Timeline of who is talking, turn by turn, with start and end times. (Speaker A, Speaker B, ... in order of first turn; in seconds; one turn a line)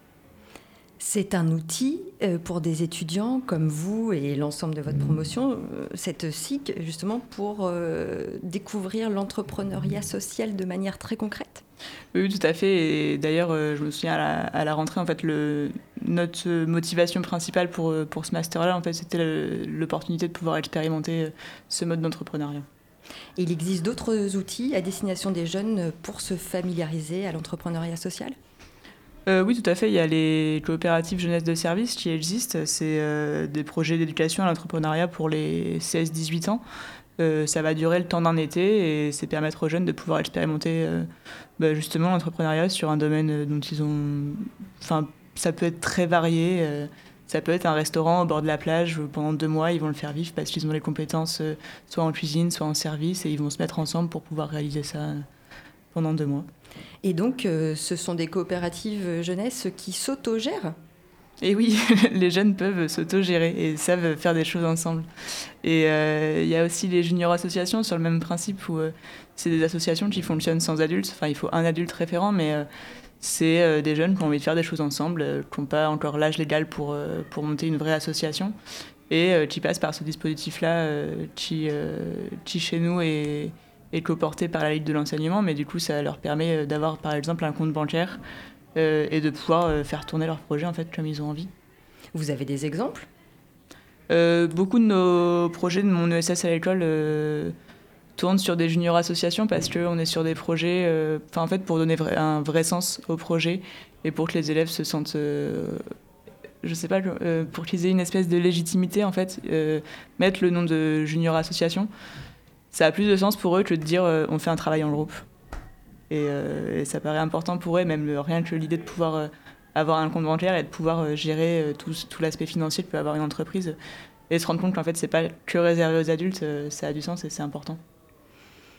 Speaker A: 1.0-11.6
Speaker B: 12.1-22.7
Speaker A: 23.4-28.4
Speaker B: 29.3-36.6
Speaker B: 37.2-41.1
Speaker B: 41.6-55.2
Speaker B: 55.9-56.5
Speaker A: 57.0-60.7
Speaker B: 61.4-65.1
Speaker B: 65.6-72.7
Speaker B: 73.2-78.5
Speaker B: 79.1-88.2
Speaker B: 88.8-91.5
Speaker A: 92.1-93.1
Speaker B: 94.1-97.5
Speaker B: 98.2-105.8
Speaker B: 106.6-111.9
Speaker B: 112.7-115.2
Speaker B: 116.1-123.8
Speaker B: 124.3-127.8